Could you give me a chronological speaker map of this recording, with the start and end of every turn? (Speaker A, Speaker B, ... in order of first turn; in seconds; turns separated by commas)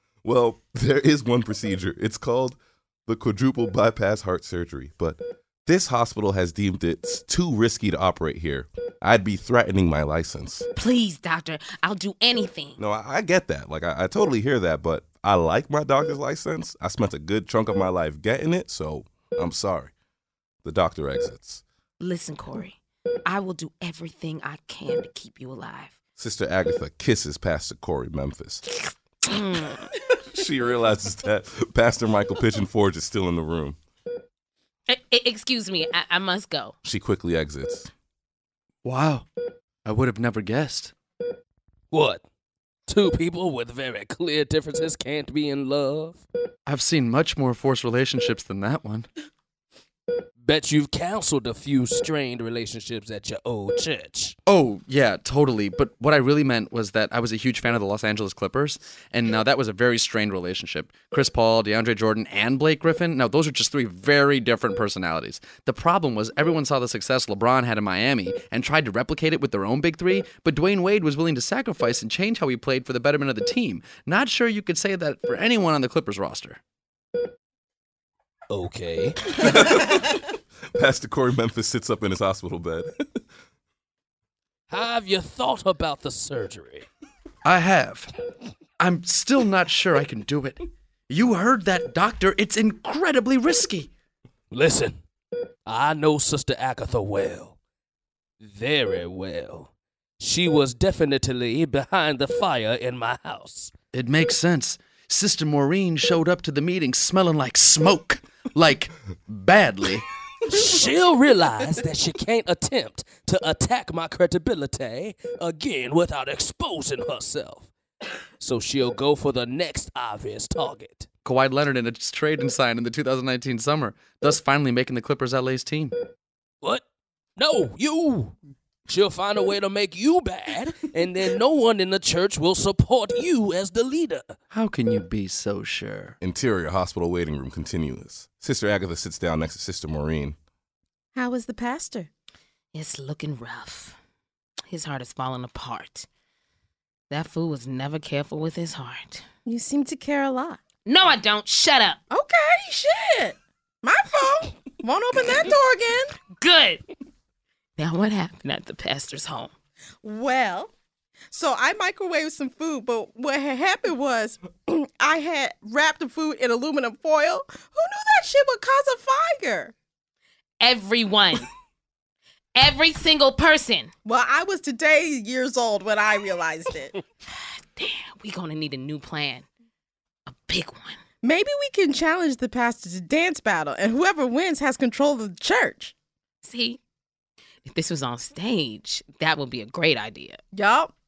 Speaker A: 0.2-10.7, Speaker B: 10.8-12.8, Speaker A: 12.8-19.9, Speaker A: 20.6-21.6, Speaker B: 22.0-25.9, Speaker A: 26.2-28.6, Speaker B: 29.2-29.9, Speaker A: 30.3-33.8, Speaker B: 34.9-36.7, Speaker A: 36.8-37.9, Speaker C: 38.8-39.3, Speaker C: 39.8-40.9, Speaker D: 41.9-42.2, Speaker D: 42.9-46.2, Speaker C: 46.6-49.1, Speaker D: 50.4-54.4, Speaker C: 54.5-76.6, Speaker D: 78.5-79.7, Speaker A: 79.4-80.2, Speaker A: 80.7-82.9, Speaker D: 84.7-86.9, Speaker C: 87.4-88.1, Speaker C: 88.8-93.9, Speaker D: 94.5-95.0, Speaker D: 95.7-97.6, Speaker D: 98.4-103.7, Speaker C: 103.9-110.0, Speaker D: 110.5-117.7, Speaker D: 118.4-121.1, Speaker C: 121.2-125.9, Speaker D: 127.4-128.3, Speaker D: 128.9-134.3, Speaker C: 134.5-136.2, Speaker A: 136.2-140.3, Speaker E: 141.1-142.1, Speaker B: 142.7-144.0, Speaker B: 144.7-146.1, Speaker B: 147.1-149.2, Speaker E: 149.4-150.6, Speaker B: 150.8-152.0, Speaker E: 152.1-156.1, Speaker B: 156.4-156.8, Speaker B: 157.8-159.5, Speaker E: 160.0-160.7, Speaker E: 161.3-169.7, Speaker B: 170.6-171.5, Speaker B: 172.5-173.9, Speaker E: 174.0-177.0, Speaker B: 177.3-179.4, Speaker B: 180.3-181.0, Speaker E: 181.2-185.9, Speaker B: 186.4-186.8, Speaker B: 187.7-190.4, Speaker E: 190.5-190.9